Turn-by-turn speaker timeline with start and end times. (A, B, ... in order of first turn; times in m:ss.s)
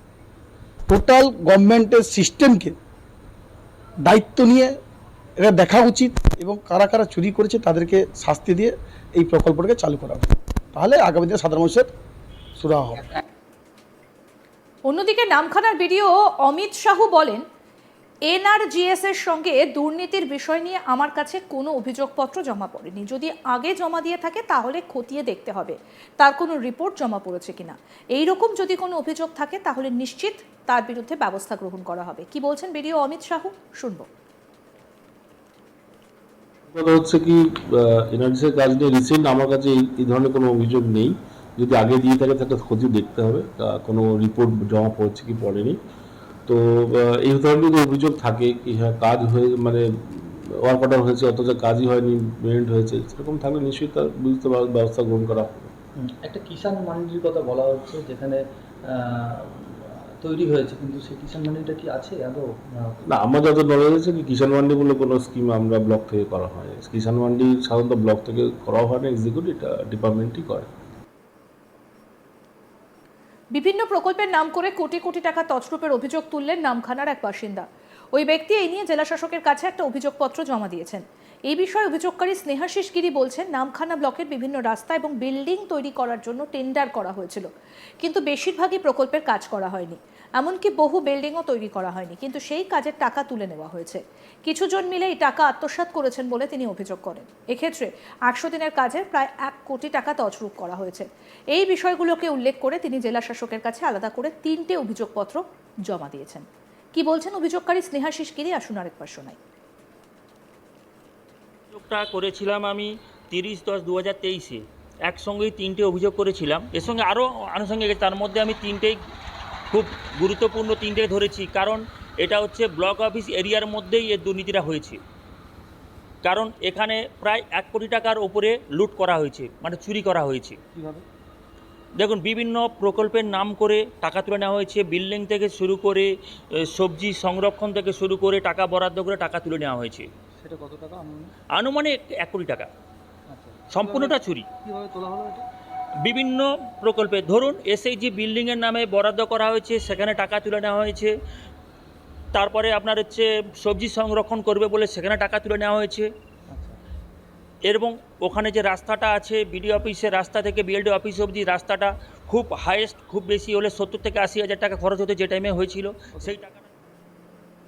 0:00.9-0:02.7 A
0:04.0-0:04.7 A
0:05.4-0:11.9 A
0:12.6-0:13.1 A
0:14.9-0:17.4 B
0:18.3-0:34.1 B
0:36.7-0:45.8 C
0:46.4-0:55.7 C
0:56.2-0:58.4 D
0:58.9-1:02.4 D
1:03.0-1:10.7 C
1:13.5-1:27.5 B
1:28.0-1:49.4 B
1:51.7-1:59.0 E
1:59.7-2:05.0 E
2:06.2-2:10.6 E
2:10.7-2:11.0 D
2:12.0-2:20.1 E
2:20.4-2:21.3 D
2:21.5-2:22.7 E
2:23.3-2:25.4 D
2:23.7-2:24.5 E
2:26.0-2:31.1 E
2:32.3-2:36.1 E
2:36.5-2:36.8 D
2:37.7-2:46.6 E